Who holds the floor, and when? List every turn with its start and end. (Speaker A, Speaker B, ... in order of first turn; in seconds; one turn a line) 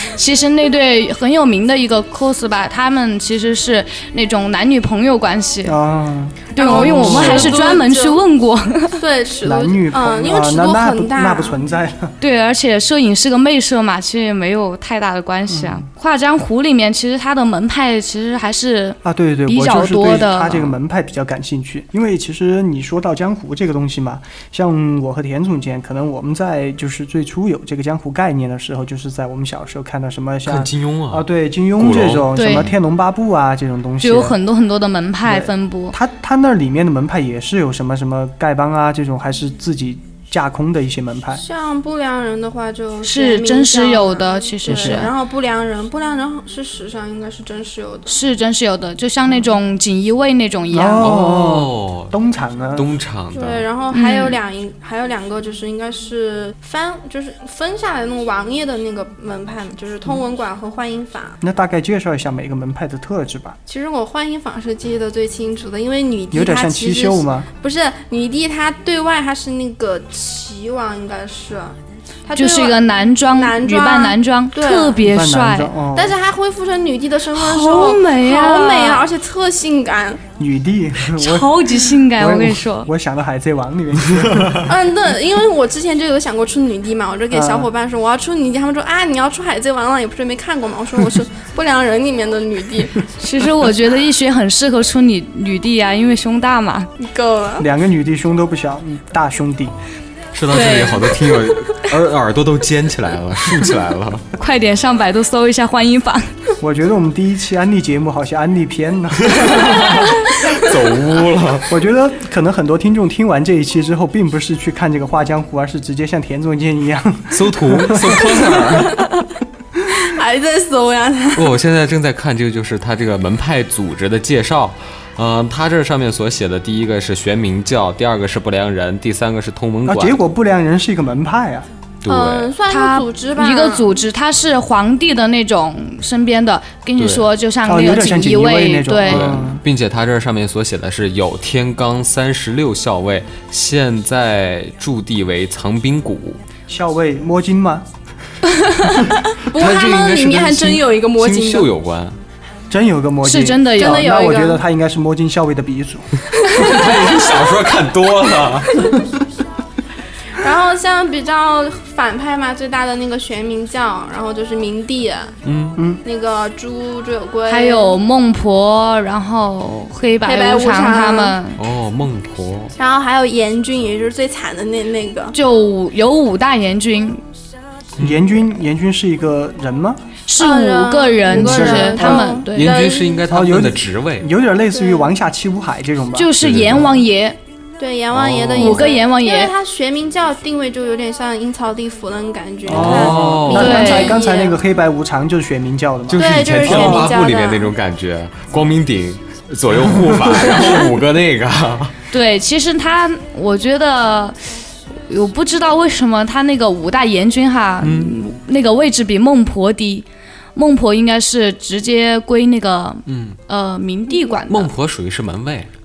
Speaker A: 0.1-5.8
Speaker B: 5.6-7.6
Speaker A: 6.5-9.0
Speaker C: 6.6-8.2
Speaker D: 6.8-7.6
Speaker C: 9.0-11.6
Speaker B: 9.4-12.1
Speaker A: 12.2-20.7
Speaker B: 15.5-15.8
Speaker B: 19.0-34.4
Speaker D: 30.4-32.7
Speaker A: 32.3-32.6
Speaker A: 34.0-36.0
Speaker B: 35.2-41.4
Speaker C: 41.4-48.1
Speaker A: 43.0-45.1
Speaker B: 44.6-45.1
Speaker A: 48.1-51.0
Speaker B: 50.7-52.9
Speaker D: 51.0-52.1
Speaker D: 52.7-53.6
Speaker C: 53.3-61.4
Speaker A: 53.9-54.4
Speaker B: 61.4-63.6
Speaker C: 63.7-75.0
Speaker B: 66.3-67.5
Speaker A: 72.3-75.7
Speaker B: 75.0-76.2
Speaker C: 75.9-80.2
Speaker A: 77.3-79.1
Speaker B: 80.4-84.7
Speaker A: 81.2-82.9
Speaker D: 84.3-84.6
Speaker C: 84.7-93.0
Speaker B: 87.3-87.7
Speaker A: 93.2-96.9
Speaker C: 97.0-97.7
Speaker B: 97.6-99.7
Speaker D: 100.3-104.2
Speaker A: 100.5-101.1
Speaker A: 104.4-106.3
Speaker B: 106.6-110.3
Speaker D: 109.2-111.8
Speaker B: 111.6-118.4
Speaker D: 117.3-119.0
Speaker C: 120.0-121.5
Speaker D: 121.3-130.2
Speaker B: 129.8-131.7
Speaker D: 132.0-132.6
Speaker C: 132.1-133.9
Speaker A: 132.7-139.4
Speaker D: 137.0-137.2
Speaker B: 137.7-139.6
Speaker D: 139.1-146.4
Speaker B: 146.7-147.8
Speaker C: 149.3-151.7
Speaker D: 149.5-152.2
Speaker B: 152.7-156.2
Speaker A: 153.2-154.2
Speaker C: 153.8-154.6
Speaker C: 156.5-157.5
Speaker D: 156.5-158.8
Speaker C: 160.4-165.3
Speaker D: 165.4-165.8
Speaker B: 165.8-166.0
Speaker C: 166.0-168.0
Speaker A: 167.5-171.6
Speaker C: 170.2-171.4
Speaker D: 171.6-172.7
Speaker C: 172.8-175.3
Speaker A: 175.3-177.2
Speaker D: 178.0-178.2
Speaker B: 178.0-180.0
Speaker A: 180.3-182.8
Speaker C: 180.4-183.2
Speaker B: 181.3-182.3
Speaker D: 182.5-184.3
Speaker B: 183.3-186.3
Speaker C: 184.7-185.1
Speaker A: 186.1-187.4
Speaker D: 186.4-186.9
Speaker C: 187.8-194.6
Speaker D: 188.1-189.0
Speaker A: 188.6-189.5
Speaker B: 192.7-197.1
Speaker D: 192.7-193.8
Speaker A: 193.5-194.2
Speaker D: 196.1-201.9
Speaker C: 196.2-197.7
Speaker B: 200.0-200.6
Speaker A: 202.1-204.4
Speaker A: 205.1-214.7
Speaker D: 207.8-208.1
Speaker D: 213.1-213.4
Speaker D: 214.5-215.7